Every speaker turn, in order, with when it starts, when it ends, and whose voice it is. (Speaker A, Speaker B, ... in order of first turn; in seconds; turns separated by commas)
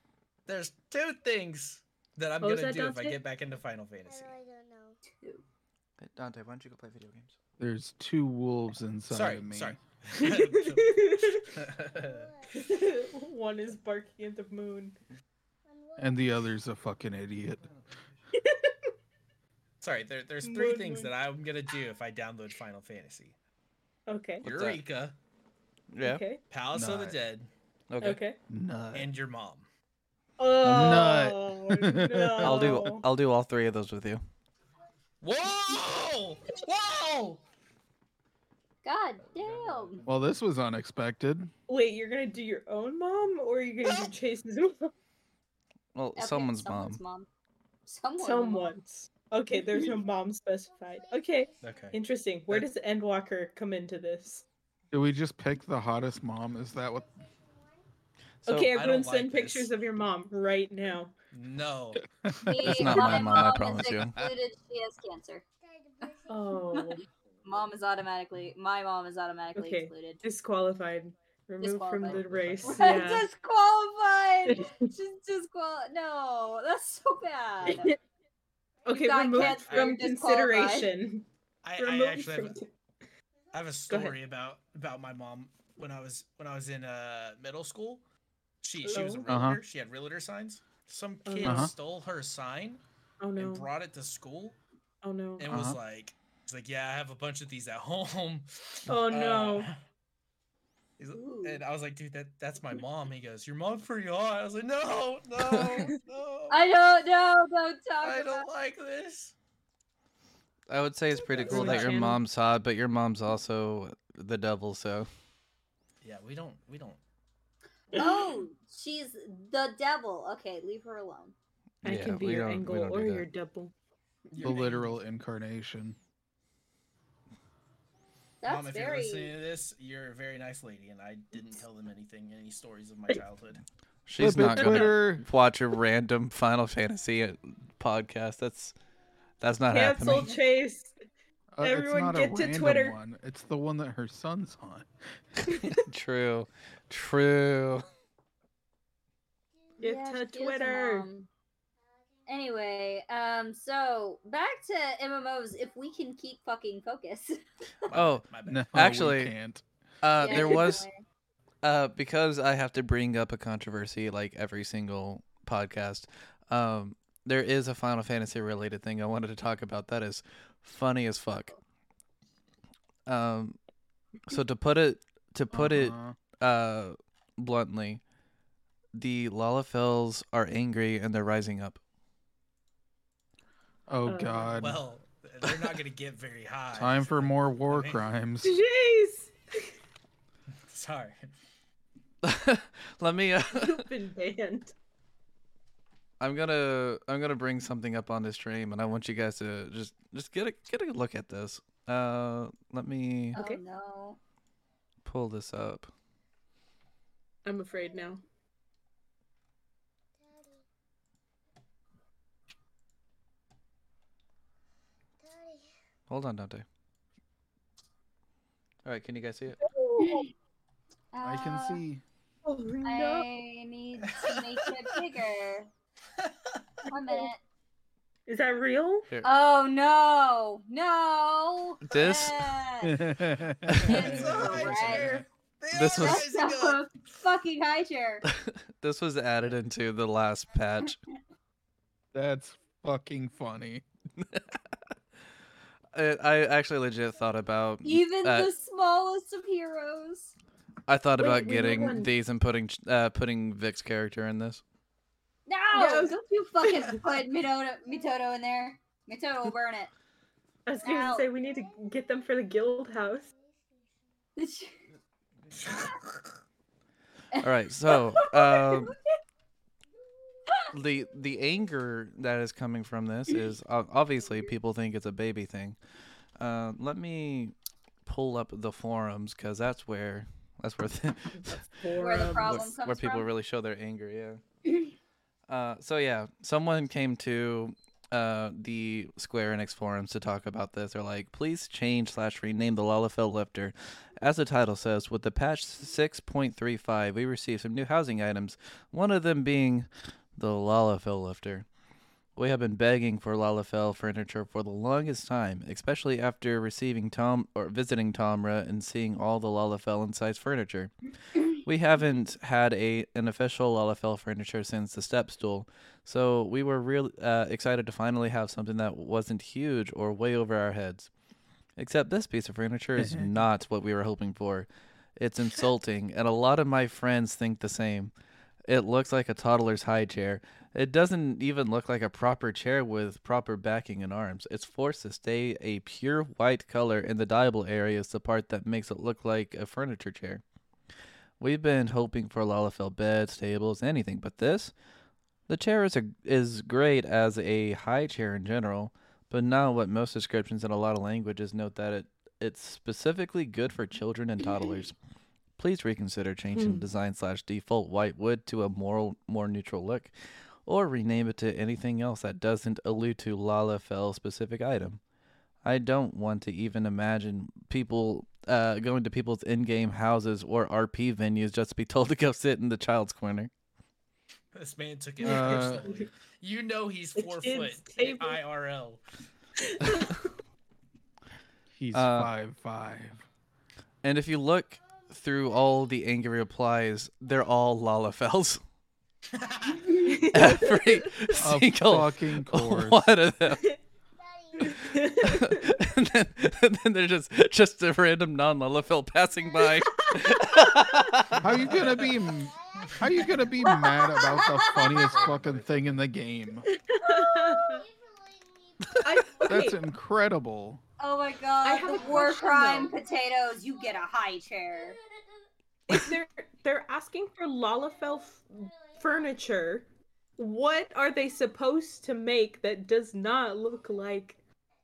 Speaker A: 0.5-4.3, Speaker B: 2.4-3.2, Speaker C: 4.1-5.0, Speaker D: 5.1-5.4, Speaker E: 6.0-7.4, Speaker F: 7.6-9.8, Speaker A: 9.1-12.3, Speaker B: 10.2-11.5, Speaker C: 11.7-12.6, Speaker B: 12.5-15.0, Speaker C: 15.7-16.4, Speaker F: 16.0-17.7, Speaker B: 18.3-18.9, Speaker A: 19.8-23.4, Speaker B: 20.4-21.1, Speaker B: 24.1-24.4, Speaker E: 24.4-24.8, Speaker A: 24.4-25.2, Speaker E: 25.9-26.2, Speaker B: 26.0-26.4, Speaker A: 26.5-27.5, Speaker F: 26.7-27.2, Speaker E: 27.9-28.2, Speaker B: 28.0-28.4, Speaker F: 28.5-29.1, Speaker A: 28.9-29.7, Speaker B: 30.4-33.1, Speaker F: 30.6-32.8, Speaker E: 32.4-34.2, Speaker A: 35.2-37.4, Speaker D: 38.8-40.0, Speaker A: 39.4-40.1, Speaker F: 40.1-41.5, Speaker B: 41.7-44.9, Speaker E: 46.0-47.0, Speaker D: 46.2-47.3, Speaker D: 47.9-48.8, Speaker B: 48.2-54.4, Speaker C: 49.8-52.0, Speaker A: 51.6-52.0, Speaker F: 54.9-57.1, Speaker C: 56.8-57.9, Speaker B: 58.5-61.1, Speaker E: 58.5-58.7, Speaker A: 58.7-59.7, Speaker A: 61.3-62.0, Speaker F: 62.2-63.5, Speaker D: 62.4-65.4, Speaker E: 62.6-64.2, Speaker C: 65.6-66.8, Speaker B: 66.3-67.0, Speaker D: 66.7-70.2, Speaker B: 69.5-73.3, Speaker D: 71.6-78.0, Speaker A: 72.0-73.1, Speaker B: 74.5-74.9, Speaker B: 77.7-78.0, Speaker B: 78.9-81.3, Speaker D: 78.9-80.9, Speaker A: 79.3-80.0, Speaker A: 81.6-82.6, Speaker B: 81.8-82.7, Speaker A: 83.5-88.0, Speaker B: 83.9-84.2, Speaker A: 88.6-92.8, Speaker B: 88.8-89.4, Speaker F: 89.3-89.6, Speaker B: 91.3-91.7, Speaker F: 91.4-91.7, Speaker B: 93.2-93.7, Speaker A: 93.4-94.6, Speaker B: 95.0-95.6, Speaker A: 95.4-99.8, Speaker F: 95.5-95.8, Speaker B: 98.9-99.7, Speaker A: 101.0-106.7, Speaker D: 101.1-101.6, Speaker E: 105.4-105.8, Speaker D: 106.5-108.5, Speaker A: 108.0-109.3, Speaker E: 110.7-115.1, Speaker A: 111.4-111.9, Speaker B: 111.4-112.2, Speaker A: 116.0-117.0, Speaker B: 117.9-118.3, Speaker D: 117.9-121.3, Speaker E: 121.8-123.3, Speaker B: 121.8-123.7, Speaker A: 124.3-125.0, Speaker F: 124.4-126.0, Speaker D: 128.4-129.3, Speaker A: 128.4-133.6, Speaker E: 134.1-138.8, Speaker F: 134.2-135.2, Speaker B: 134.3-134.9, Speaker E: 139.4-140.4, Speaker B: 139.7-141.0, Speaker F: 141.6-144.9, Speaker B: 141.6-143.0, Speaker E: 145.5-147.9, Speaker B: 149.8-151.1, Speaker D: 149.8-151.3, Speaker C: 152.2-152.6, Speaker D: 152.3-157.9, Speaker A: 157.9-159.1, Speaker E: 157.9-158.2, Speaker F: 158.5-159.6, Speaker E: 158.8-159.3, Speaker E: 160.0-160.8, Speaker D: 160.2-161.0, Speaker E: 161.6-171.5, Speaker E: 173.1-173.6, Speaker E: 174.3-178.0, Speaker F: 175.5-176.2, Speaker E: 178.9-181.8, Speaker F: 183.9-184.8, Speaker B: 184.1-184.6, Speaker A: 184.5-188.1, Speaker F: 186.7-188.6, Speaker B: 188.4-189.7, Speaker A: 190.7-191.3, Speaker E: 192.2-193.9, Speaker B: 193.5-194.7, Speaker E: 196.2-203.4, Speaker B: 203.3-203.6, Speaker D: 203.3-204.2, Speaker E: 205.1-205.9, Speaker B: 207.4-208.2, Speaker C: 207.7-208.1, Speaker C: 210.2-210.6, Speaker C: 215.2-215.7, Speaker E: 216.1-216.7, Speaker E: 218.8-219.6, Speaker B: 219.6-220.3, Speaker D: 220.0-220.3, Speaker D: 221.1-221.8, Speaker F: 221.2-222.0, Speaker B: 222.4-223.3, Speaker D: 222.8-225.7, Speaker A: 224.1-225.0, Speaker A: 226.2-226.6, Speaker D: 226.9-227.4, Speaker B: 228.3-229.1, Speaker D: 229.2-233.1, Speaker E: 231.9-232.6, Speaker F: 232.8-235.2, Speaker E: 233.7-234.3, Speaker D: 233.8-235.2, Speaker A: 233.9-236.9, Speaker E: 235.7-236.2, Speaker D: 235.9-238.2, Speaker E: 238.3-241.0, Speaker F: 242.1-243.8, Speaker E: 244.2-244.6, Speaker E: 245.9-248.5, Speaker D: 247.8-250.4, Speaker E: 250.9-254.6, Speaker B: 251.2-252.1, Speaker D: 255.5-259.9, Speaker B: 255.7-257.0, Speaker B: 260.7-263.2, Speaker D: 260.8-261.3, Speaker C: 261.0-264.0, Speaker D: 264.4-264.8, Speaker A: 265.5-266.2, Speaker D: 267.3-269.0, Speaker E: 267.4-269.0, Speaker E: 270.7-275.8, Speaker E: 276.4-277.6, Speaker E: 278.1-281.6, Speaker B: 281.3-282.7, Speaker D: 282.0-283.3, Speaker E: 282.3-284.4, Speaker E: 285.5-301.7, Speaker E: 302.4-321.1, Speaker E: 321.8-328.1, Speaker F: 323.0-323.3, Speaker E: 328.7-340.4, Speaker E: 341.4-344.7, Speaker E: 345.5-354.9, Speaker E: 355.6-360.1, Speaker B: 356.5-356.9, Speaker E: 360.7-365.0, Speaker E: 365.6-373.5, Speaker A: 374.5-379.0, Speaker B: 375.2-376.1, Speaker F: 375.2-375.9, Speaker B: 377.2-378.4, Speaker B: 379.6-380.4, Speaker F: 381.8-383.2, Speaker E: 381.9-382.3, Speaker E: 384.0-388.6, Speaker C: 384.8-385.9, Speaker A: 389.3-389.9, Speaker B: 389.9-390.9, Speaker E: 390.3-393.6, Speaker F: 391.4-393.1, Speaker B: 393.5-393.8, Speaker C: 394.2-395.5, Speaker B: 394.6-395.7, Speaker E: 395.2-401.7, Speaker C: 399.4-399.7, Speaker B: 399.8-401.1, Speaker A: 401.4-402.1, Speaker F: 401.4-406.7, Speaker C: 401.9-405.0, Speaker D: 403.6-405.0, Speaker A: 404.7-406.1, Speaker B: 406.7-407.8, Speaker D: 407.0-407.6, Speaker C: 407.2-409.7, Speaker B: 409.0-409.8, Speaker F: 409.5-410.8, Speaker D: 411.0-415.0, Speaker B: 411.6-412.9, Speaker C: 411.8-415.5, Speaker B: 415.9-419.9, Speaker C: 417.7-419.7, Speaker B: 420.4-424.4, Speaker C: 423.6-424.1